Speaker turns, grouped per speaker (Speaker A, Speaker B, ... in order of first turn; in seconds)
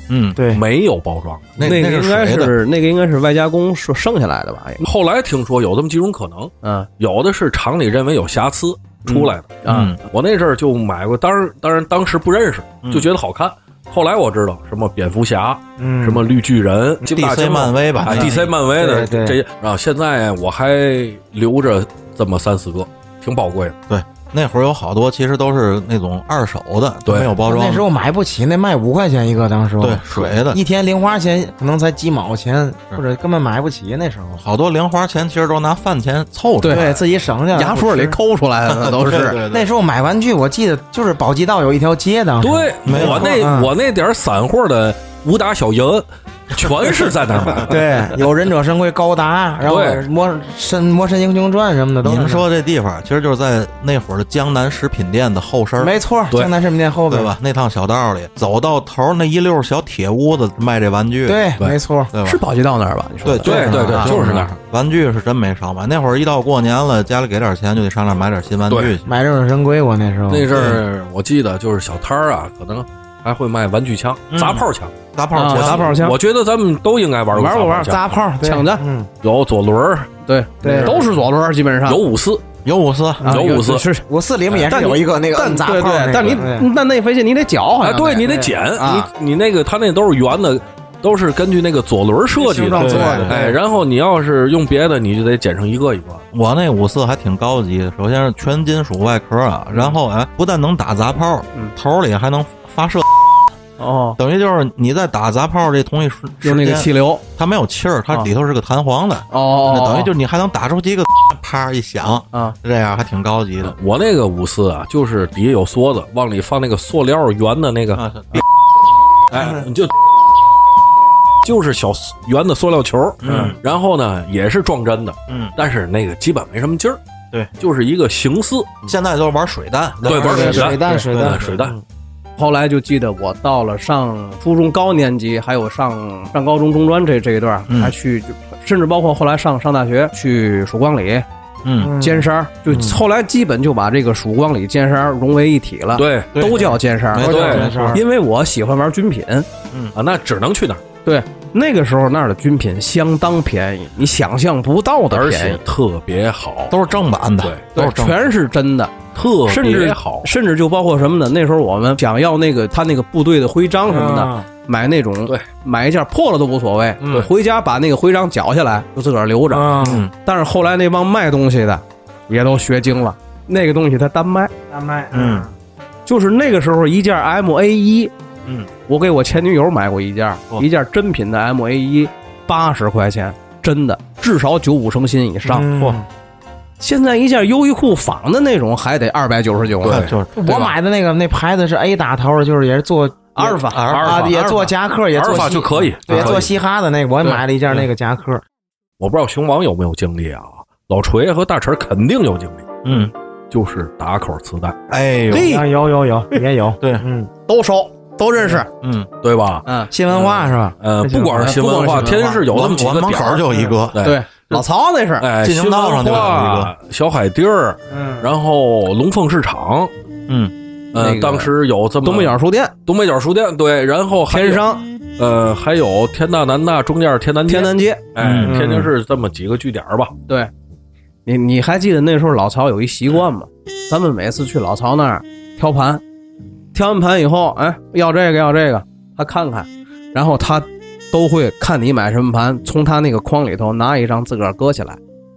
Speaker A: 0.1-0.4, 1.6-2.5, 9.1-10.0, 12.8-13.1, 17.1-18.4, 23.9-27.9, 29.8-30.6, 34.4-37.0, 38.7-39.7, 42.9-43.4, 52.0-55.9, 57.1-61.4, 62.1-62.4, 63.2-69.1, 70.5-70.8, 74.3-75.9, 82.6-83.2, 92.8-93.4, 96.3-103.2, 104.2-113.8, 117.9-118.4, 123.2-123.6, 125.3-125.5, 128.9-131.6, 137.7-137.9, 141.6-141.9, 146.3-148.0, 156.7-158.2, 167.0-167.3, 169.8-170.1, 175.1-175.5, 189.8-190.7, 193.7-194.3, 196.1-196.4, 202.8-203.1, 204.9-205.5, 208.8-209.1, 212.5-214.1, 215.4-216.7, 220.3-220.5, 228.2-228.6
Speaker B: 0.4-0.6, 15.8-16.2, 18.1-19.4, 27.4-34.4, 36.7-38.2, 39.5-43.7, 47.6-52.4, 55.8-57.3, 61.3-62.1, 63.6-64.1, 69.1-70.7, 77.9-79.1, 80.6-81.0, 84.1-86.7, 92.4-93.4, 130.2-131.6, 141.8-143.0, 147.1-148.0, 163.9-164.4, 169.5-170.1, 174.7-175.5, 185.4-186.1, 190.4-198.4, 205.3-207.3, 209.9-212.1, 217.9-218.3
Speaker C: 0.5-1.6, 4.8-23.8, 27.1-27.3, 42.4-47.8, 49.6-50.0, 63.4-64.5, 68.7-68.9, 70.3-74.9, 75.5-78.0, 79.2-80.1, 80.7-81.1, 81.9-82.4, 83.3-83.9, 87.8-96.2, 113.7-118.4, 119.3-119.9, 121.4-127.0, 127.6-128.9, 130.0-131.8, 145.9-146.4, 147.2-147.7, 149.9-150.8, 155.1-156.8, 159.1-160.3, 189.8-190.1, 195.1-196.5, 199.0-202.8, 203.5-204.8, 209.2-214.2, 215.2-219.9, 220.9-224.7, 225.2-230.1
Speaker D: 1.6-4.8, 6.6-6.9, 9.6-9.9, 36.6-36.9, 37.5-39.4, 62.2-64.1, 75.3-76.2, 77.3-78.8, 80.3-82.0, 83.2-84.0, 84.6-89.1, 92.7-93.5, 103.8-104.2, 106.4-107.2, 109.3-110.1, 123.3-123.5, 130.3-131.1, 132.4-141.2, 142.0-149.5, 151.1-155.6, 157.8-158.9, 159.5-174.5, 176.1-178.1, 178.9-185.7, 186.8-190.5, 193.3-194.7, 205.3-205.7, 207.5-208.7, 209.7-209.9, 211.3-212.4, 214.0-215.2, 220.9-221.5, 222.0-222.7, 224.3-224.8, 227.5-228.9, 231.3-236.0, 236.7-245.0